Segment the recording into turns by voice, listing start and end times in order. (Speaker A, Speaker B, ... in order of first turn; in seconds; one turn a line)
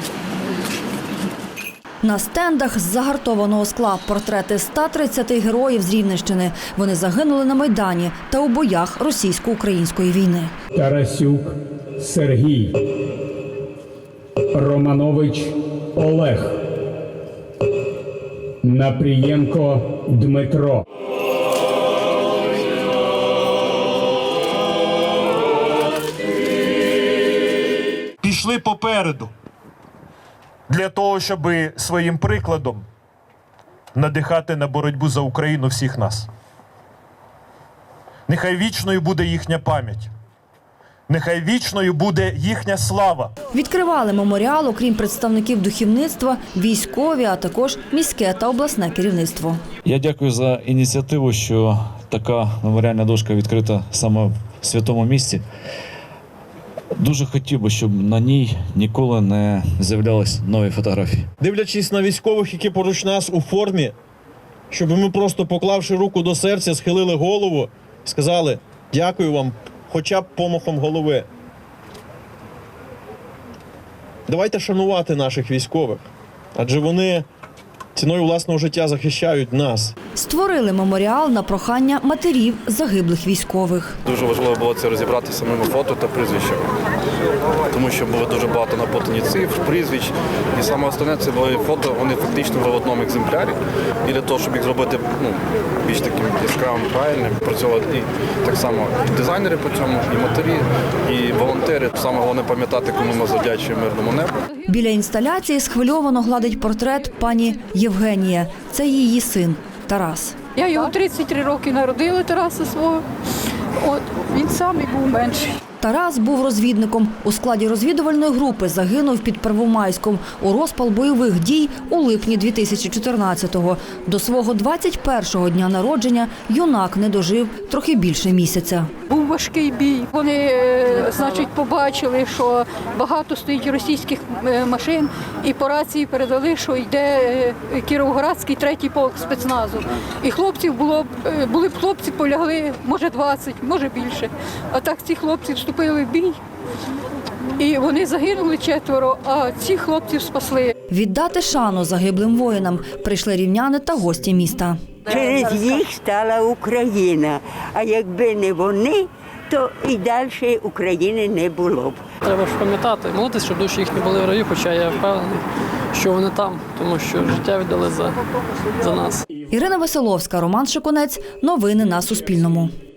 Speaker A: 2.0-10.5
Speaker B: 10.7-12.7
Speaker B: 14.5-16.6
Speaker B: 18.6-20.8
Speaker C: 28.2-29.3
Speaker C: 30.7-32.9
Speaker C: 33.9-36.3
Speaker C: 38.3-40.1
Speaker C: 41.1-43.3
Speaker A: 43.5-49.6
Speaker D: 49.9-55.4
Speaker D: 57.0-61.2
Speaker E: 61.4-63.9
Speaker E: 64.7-71.3
Speaker E: 74.3-76.0
Speaker E: 76.5-77.2
Speaker E: 78.0-79.9
Speaker A: 80.2-84.0
Speaker F: 84.0-86.7
Speaker F: 87.7-104.3
Speaker A: 104.7-110.3
Speaker G: 110.5-113.0
Speaker G: 113.8-115.5
Speaker A: 115.8-128.9
Speaker G: 129.1-146.4
Speaker G: 147.6-150.7
Speaker A: 150.9-154.8
Speaker H: 155.1-162.0
Speaker I: 162.2-165.4
Speaker I: 165.9-168.2
Speaker I: 168.8-169.2
Speaker A: 169.5-172.7